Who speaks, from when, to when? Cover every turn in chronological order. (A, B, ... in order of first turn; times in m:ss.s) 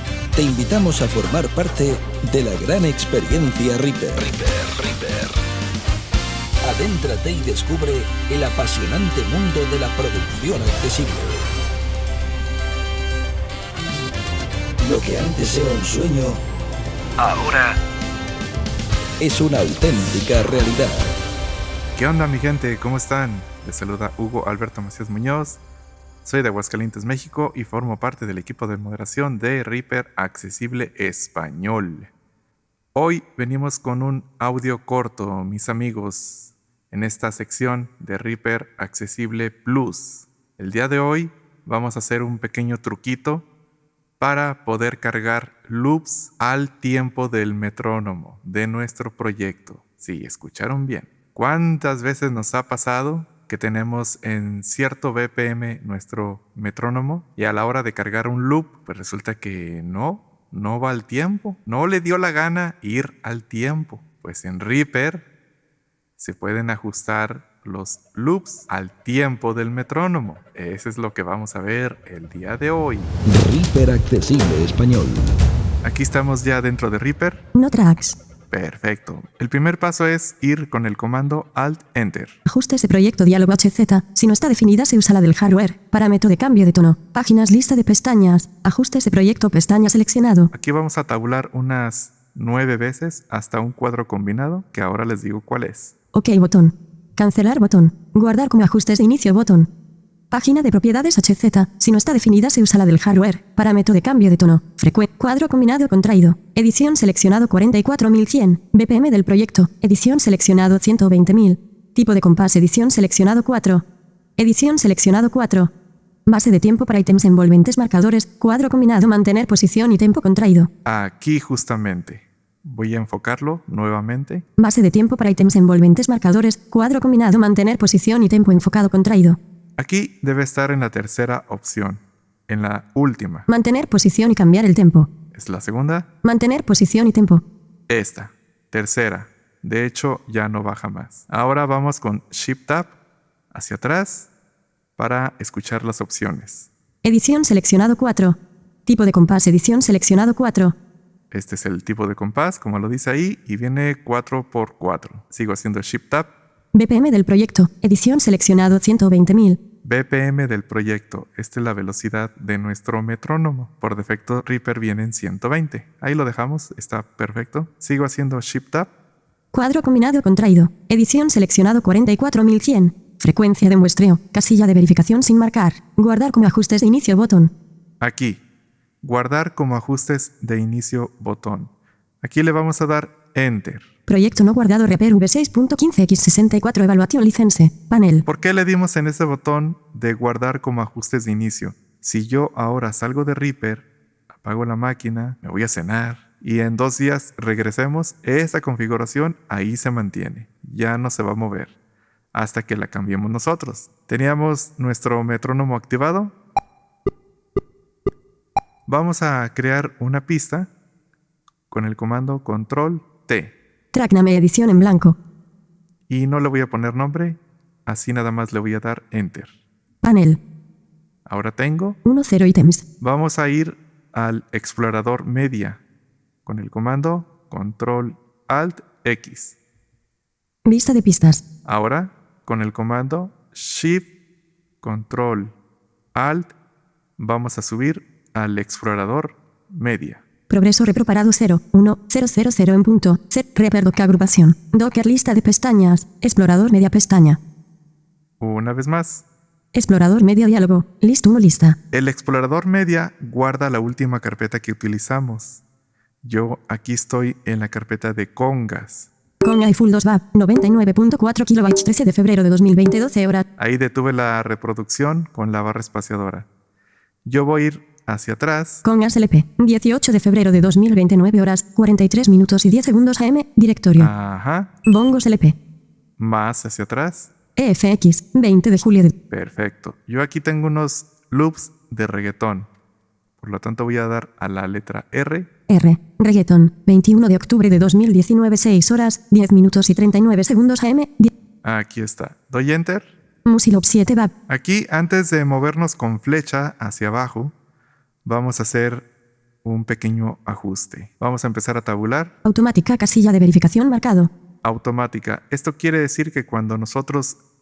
0:00.3-0:05.4 A
0:06.6-0:11.5 A
0:14.8-0:16.4 A
0:17.2-0:17.8 A
0:19.2-0:21.2 A
0:21.9-0:25.6 B
0:26.2-0:32.1 B
0:32.9-0:43.5 B
0:44.2-1:05.2 B
1:06.2-1:13.1 B
1:13.2-1:15.3 A
1:15.8-1:17.4 B
1:17.5-1:18.2 C
1:18.5-1:22.4 B
1:22.4-1:30.5 C
1:30.5-1:35.9 B
1:36.1-1:39.7 C
1:40.3-1:53.8 C
1:54.4-1:55.7 C
1:56.2-2:00.7 C
2:00.8-2:04.4 B
2:04.6-2:09.4 C
2:09.8-2:13.5 B
2:13.5-2:15.1 C
2:15.3-2:16.1 B
2:16.2-2:17.4 C
2:17.9-2:23.0 B
2:23.5-2:24.3 B
2:25.0-2:26.7 B
2:27.0-2:30.8 C
2:31.3-2:36.3 B
2:36.7-2:39.6 C
2:39.8-2:48.9 B
2:49.5-2:57.5 C
2:58.0-2:58.4 B
2:59.0-3:03.8 B
3:04.1-3:08.2 C
3:08.2-3:21.7 B
3:22.3-3:26.3 B
3:28.9-3:30.7 B
3:31.7-3:33.5 B
3:33.9-3:35.2 C
3:36.1-3:39.5 B
3:40.0-3:40.4 C
3:41.2-3:42.0 B
3:42.0-3:42.8 C
3:43.0-3:45.8 B
3:46.4-3:49.6 B
3:50.6-3:51.4 C
3:51.6-3:54.1 B
3:54.8-3:55.6 B
3:56.1-3:56.5 B
3:57.2-4:00.2 B
4:00.5-4:07.4 C
4:08.4-4:09.2 B
4:09.7-4:11.8 C
4:11.9-4:15.6 B
4:16.2-4:19.1 B
4:19.4-4:23.4 C
4:23.6-4:26.5 B
4:27.2-4:28.8 B
4:28.8-4:34.1 C
4:34.0-4:34.7 B
4:34.8-4:35.6 C
4:36.2-4:37.3 B
4:37.6-4:39.1 C
4:39.3-4:42.7 B
4:43.4-4:45.5 B
4:45.7-4:51.3 C
4:51.6-4:53.1 B
4:53.4-4:54.3 C
4:54.5-4:57.5 B
4:58.2-4:59.1 B
4:59.6-5:02.3 B
5:02.4-5:04.3 C
5:04.6-5:07.4 B